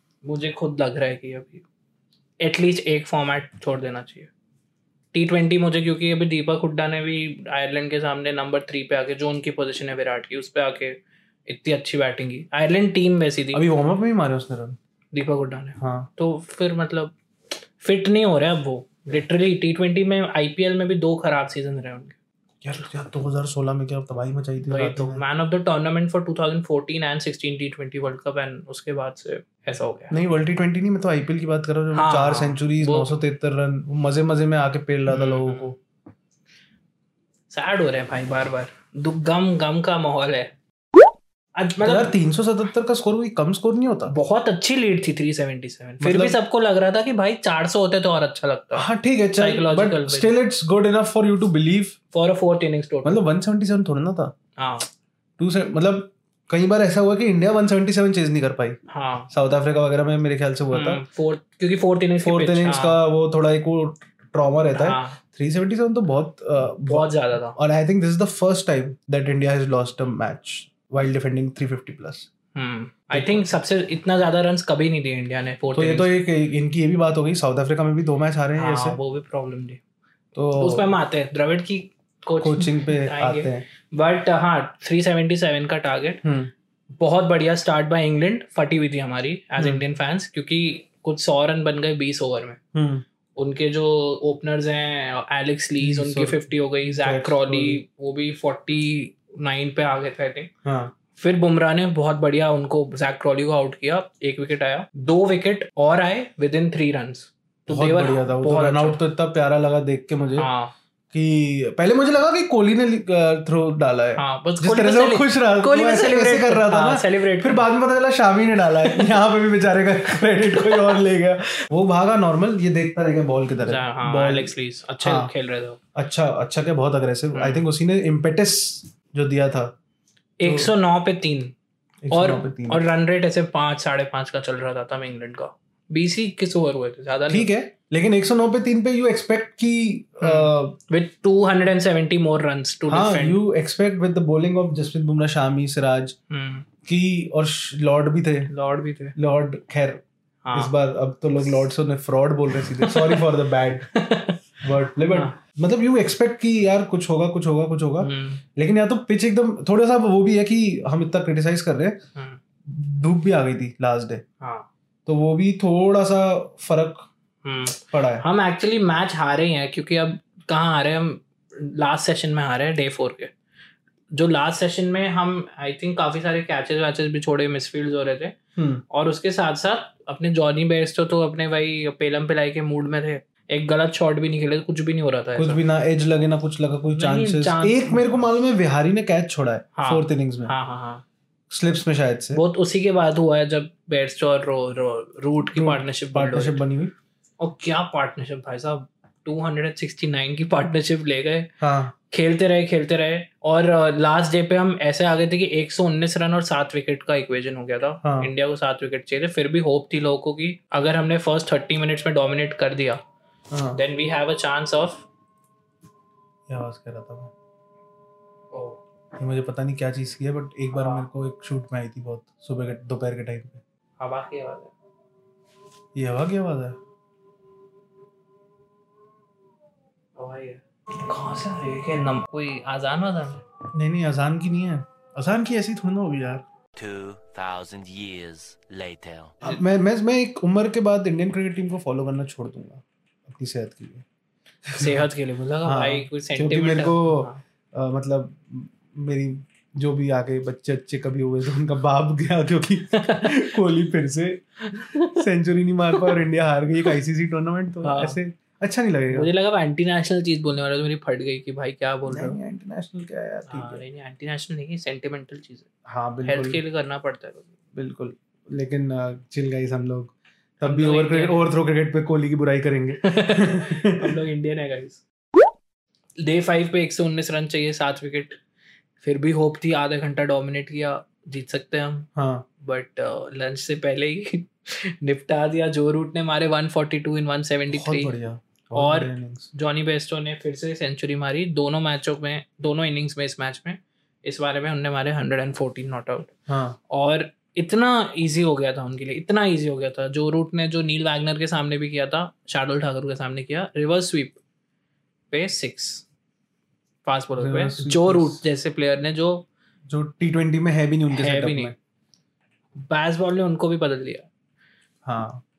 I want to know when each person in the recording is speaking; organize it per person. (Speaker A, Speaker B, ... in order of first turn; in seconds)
Speaker A: 0.2-1.6, 2.4-4.3, 5.1-13.6, 15.1-17.1, 17.8-22.1, 24.6-30.2, 31.9-33.1, 35.1-35.7, 37.5-40.5, 41.6-42.1, 44.1-50.3, 52.1-53.2, 54.6-54.9, 58.9-59.3, 60.7-63.0, 64.7-65.2, 66.9-67.6, 72.5-76.1, 78.6-79.8, 80.5-86.2, 87.0-92.6, 93.3-100.5, 101.2-109.0, 110.3-110.7, 114.2-117.7, 120.5-120.9, 123.6-125.8, 127.3-127.7, 130.4-131.5, 132.1-137.5, 140.2-143.4, 146.3-146.7, 148.5-149.2, 150.4-150.7, 152.8-153.2, 153.9-154.4, 155.1-155.4, 158.0-158.4, 164.4-164.7, 167.4-173.3, 174.1-178.3, 178.9-185.6, 186.9-188.0, 189.8-191.0, 192.3-196.6, 197.4-201.5, 202.1-213.0, 213.7-215.1, 218.5-218.8, 220.7-221.1, 224.0-224.7, 230.2-233.4, 244.8-247.4, 252.9-253.5, 254.7-255.2, 257.8-258.2, 259.1-262.4, 263.5-265.7, 266.2-267.5, 270.6-271.4, 273.0-275.0, 276.2-278.4, 279.0-282.1, 282.6-288.1, 288.7-296.3, 296.9-304.4, 305.3-306.0, 307.0-309.4, 311.1-311.7, 312.8-314.3
Speaker B: 13.5-14.8, 15.8-16.1, 22.6-25.2, 30.1-35.8, 41.8-44.1, 46.0-46.4, 48.7-52.0, 53.0-54.3, 55.4-61.0, 62.2-72.3, 73.1-73.5, 75.7-79.0, 80.3-80.9, 82.4-83.6, 86.2-86.5, 89.6-89.8, 92.7-93.0, 95.8-97.8, 100.6-100.9, 107.7-110.5, 111.1-125.3, 125.9-129.7, 130.4-130.7, 132.0-132.8, 137.3-140.8, 142.9-146.2, 146.8-148.5, 149.2-153.9, 154.6-162.0, 162.7-164.2, 165.1-167.1, 167.8-168.2, 178.6-178.8, 185.4-190.5, 191.5-192.4, 195.5-196.9, 201.6-201.9, 208.0-208.3, 213.5-213.8, 216.5-217.3, 219.2-223.6, 225.9-226.8, 233.7-236.4, 239.4-244.0, 244.7-245.0, 245.6-254.4, 255.1-259.3, 262.1-263.8, 265.9-266.6, 267.7-274.2, 282.1-282.4, 287.7-289.5, 296.5-296.8, 307.4-308.4, 309.9-311.7, 315.0-315.4
Speaker C: 236.8-239.3